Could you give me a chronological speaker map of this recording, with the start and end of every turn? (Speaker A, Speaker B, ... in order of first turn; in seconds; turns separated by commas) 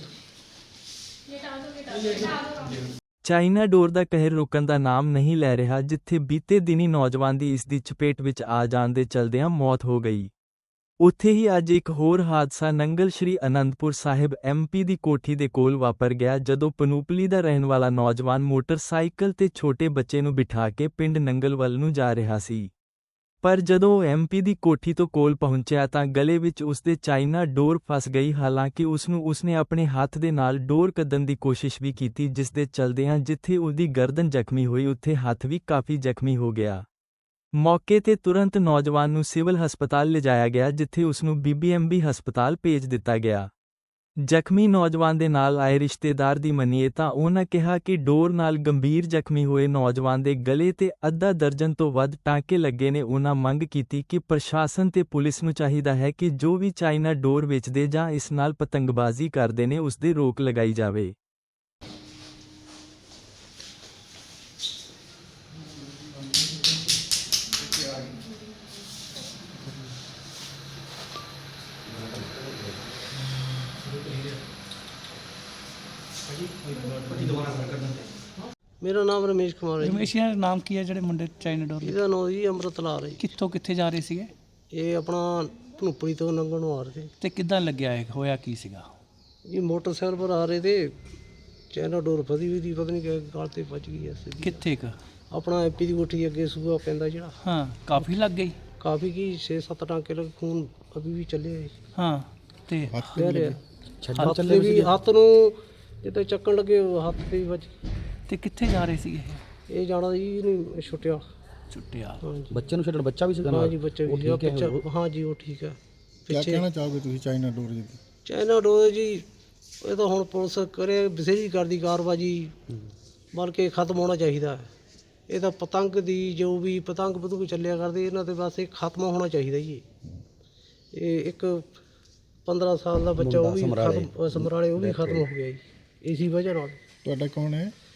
Speaker A: 3.2-10.3, Speaker A: 11.0-22.7, Speaker A: 23.4-36.8, Speaker A: 37.5-43.5, Speaker A: 44.2-61.1, Speaker B: 73.9-74.3, Speaker B: 76.4-78.0, Speaker C: 78.8-80.1, Speaker B: 79.8-82.0, Speaker C: 81.8-83.3, Speaker B: 83.2-84.3, Speaker C: 84.7-87.1, Speaker B: 87.2-88.9, Speaker C: 89.5-91.0, Speaker C: 91.7-94.6, Speaker B: 94.4-95.0, Speaker C: 95.3-97.4, Speaker B: 97.4-98.6, Speaker C: 98.8-101.7, Speaker B: 102.0-103.1, Speaker D: 102.9-103.6, Speaker C: 103.2-103.6, Speaker E: 104.0-104.9, Speaker B: 104.1-104.4, Speaker C: 104.2-107.7, Speaker B: 108.3-109.4, Speaker C: 109.7-111.2, Speaker B: 111.7-112.2, Speaker C: 112.2-112.5, Speaker E: 112.5-114.8, Speaker C: 113.5-116.7, Speaker D: 116.3-118.0, Speaker C: 118.2-119.2, Speaker C: 119.8-122.6, Speaker C: 123.3-124.7, Speaker C: 125.3-129.8, Speaker C: 130.9-131.7, Speaker C: 132.4-136.8, Speaker E: 133.2-135.3, Speaker D: 137.1-137.7